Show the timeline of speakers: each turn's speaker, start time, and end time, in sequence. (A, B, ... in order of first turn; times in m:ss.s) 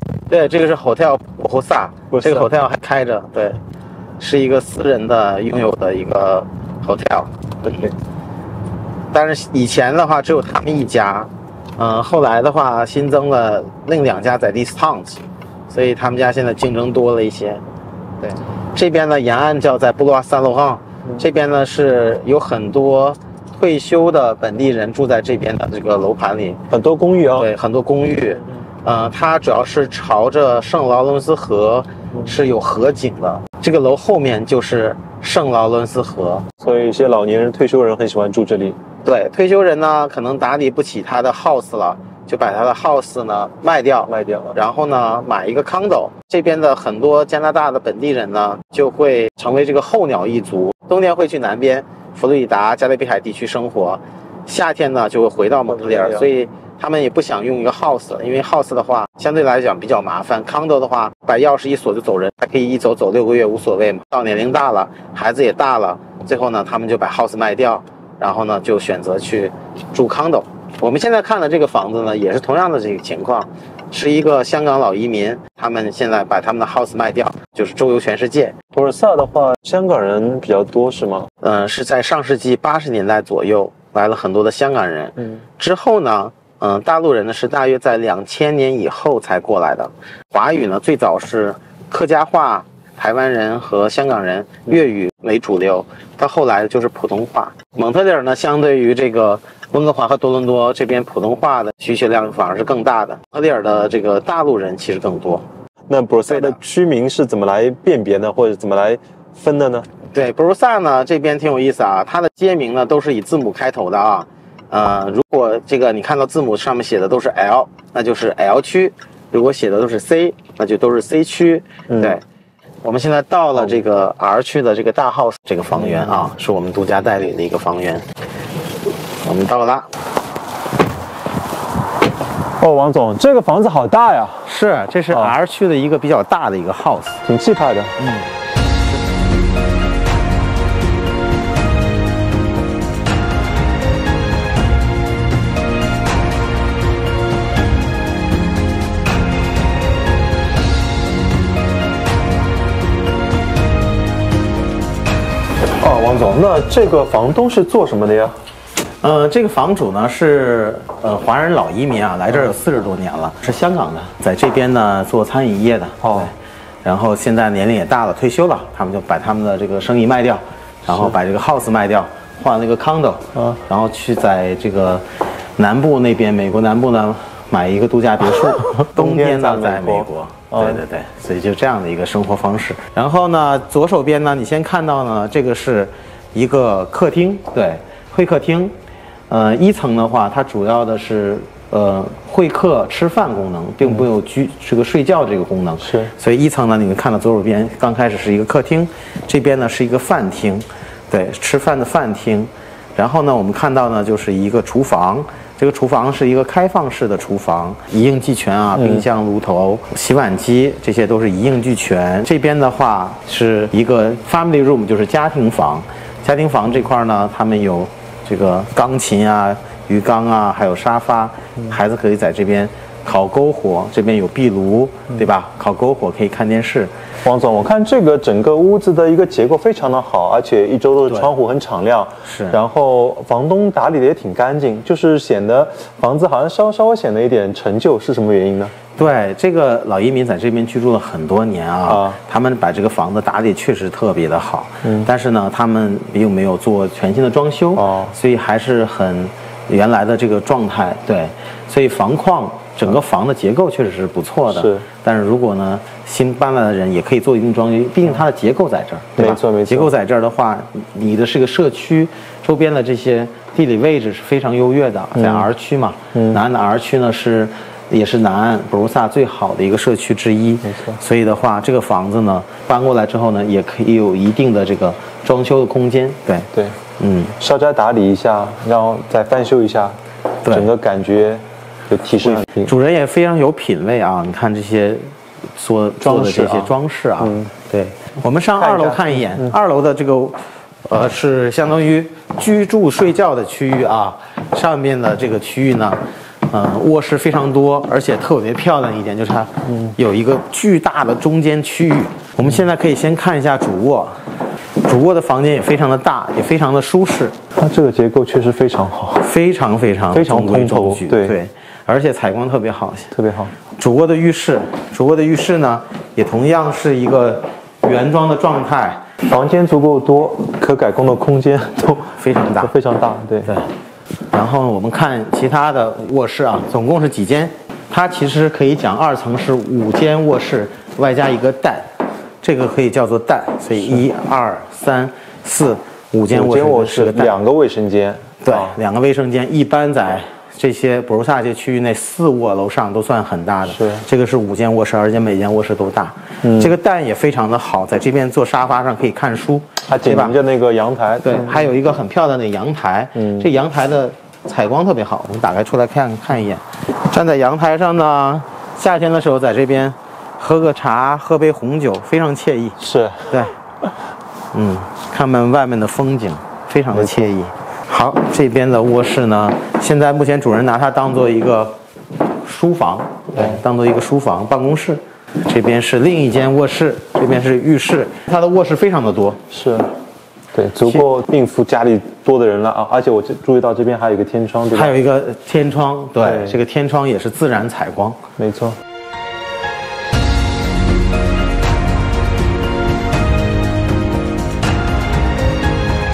0:00.3-0:03.6 A
0:02.1-0:02.5 B
0:04.2-0:07.9 A
0:09.1-0:17.6 A
0:18.2-0:26.6 A
0:26.7-0:27.5 B
0:27.3-0:36.5 A
0:36.6-0:38.8 B
0:39.0-1:18.6 A
0:44.1-0:44.6 B
0:55.8-0:56.2 B
1:18.7-1:21.3 B
1:21.4-1:45.4 A
1:45.9-1:49.9 B
1:46.3-1:46.6 A
1:50.1-2:02.2 A
2:01.9-2:02.2 B
2:02.8-2:08.0 A
2:05.8-2:06.2 B
2:09.2-2:09.9 A
2:12.6-2:14.5 B
2:14.4-2:17.2 A
2:17.2-2:18.0 B
2:18.0-2:18.3 A
2:35.8-2:38.4 B
2:39.0-2:55.0 A
2:46.0-2:46.3 B
2:55.6-3:08.7 A
2:59.0-3:00.8 B
3:09.3-3:46.9 A
3:15.8-3:16.1 B
3:28.8-3:29.0 B
3:47.2-3:58.7 B
3:52.2-3:52.6 A
3:59.0-4:37.4 A
4:01.9-4:02.2 B
4:07.8-4:08.1 B
4:14.5-4:14.8 B
4:19.2-4:19.9 B
4:25.1-4:25.5 B
4:26.1-4:26.4 B
4:30.7-4:31.0 B
4:37.4-4:42.7 B
4:42.2-5:04.1 A
4:46.0-4:47.5 B
4:48.6-4:49.5 B
5:04.8-5:07.4 A
5:07.6-5:09.3 B
5:09.2-5:13.1 A
5:10.1-5:11.3 B
5:13.1-5:13.5 B
5:13.8-5:19.0 A
5:19.2-5:23.5 B
5:22.1-5:22.7 A
5:24.3-5:31.9 A
5:32.4-5:37.4 A
5:36.3-5:38.8 B
5:38.4-5:50.4 A
5:43.6-5:44.0 B
5:46.4-5:46.7 B
5:49.9-5:51.5 B
5:51.2-6:03.5 A
5:53.2-5:53.5 B
6:02.8-6:03.4 B
6:04.5-6:11.8 A
6:06.9-6:07.3 B
6:12.4-6:19.4 A
6:13.4-6:13.6 B
6:19.5-6:19.9 B
6:20.5-6:25.0 B
6:24.7-6:28.2 A
6:26.2-6:26.6 B
6:28.4-6:28.8 B